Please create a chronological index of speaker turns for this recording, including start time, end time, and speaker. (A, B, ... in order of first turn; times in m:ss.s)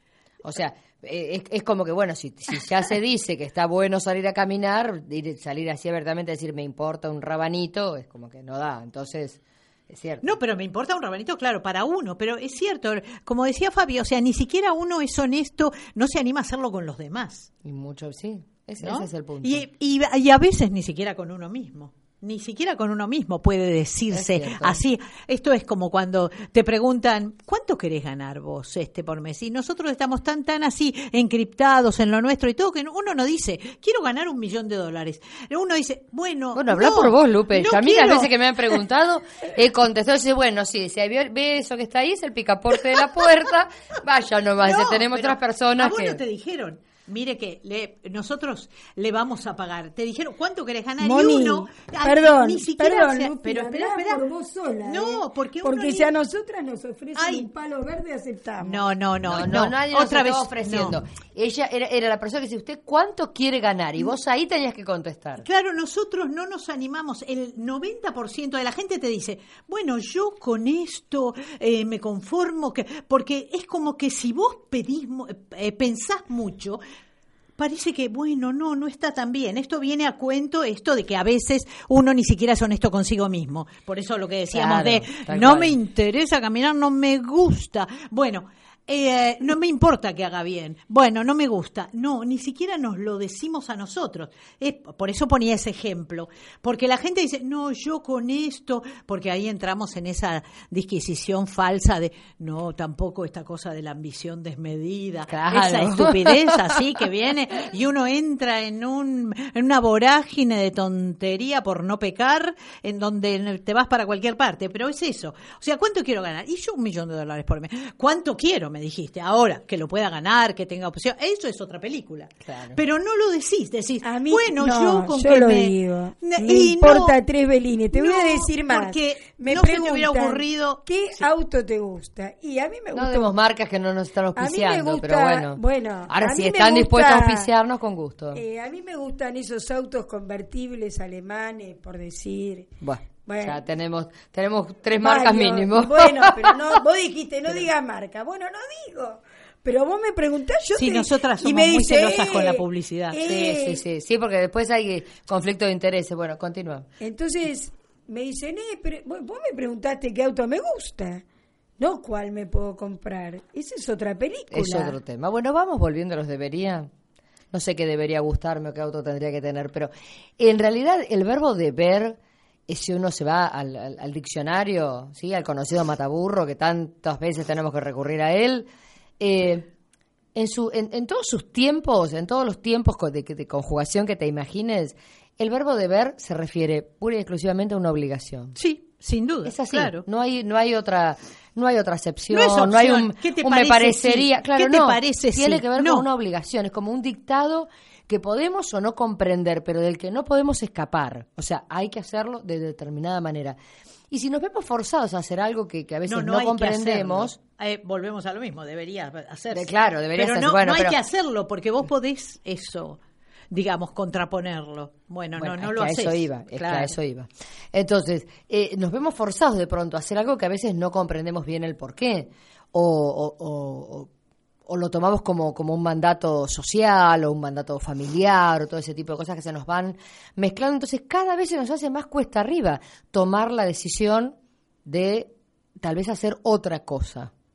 0:00.4-0:10.4 A
0:10.2-0:17.5 B
0:17.6-0:19.6 A
0:18.8-0:38.8 B
0:24.1-0:24.8 A
0:36.5-0:46.2 A
0:44.6-0:54.2 B
0:51.0-0:58.8 C
0:54.8-0:56.1 B
0:57.2-0:57.5 B
0:58.6-1:01.0 B
0:59.2-1:05.4 A
1:05.4-1:16.8 B
1:17.6-2:07.2 B
1:24.5-1:25.8 A
1:45.3-1:46.8 A
2:02.5-2:02.8 A
2:04.0-2:13.3 C
2:07.9-2:11.2 B
2:12.9-2:18.4 A
2:14.4-2:17.5 C
2:18.3-2:22.7 C
2:22.8-2:26.6 A
2:23.2-2:23.6 C
2:25.0-2:33.8 C
2:30.8-2:33.2 B
2:33.2-2:36.9 A
2:37.0-2:41.2 C
2:41.8-2:45.0 C
2:44.5-2:46.9 A
2:47.5-2:58.7 A
2:59.2-2:59.7 A
3:00.3-3:08.6 A
3:08.6-3:10.0 B
3:09.4-3:23.6 A
3:12.3-3:16.1 B
3:24.1-3:27.4 A
3:26.1-3:33.0 B
3:29.5-3:31.0 A
3:33.5-3:36.9 B
3:35.4-3:44.1 A
3:44.6-3:57.3 A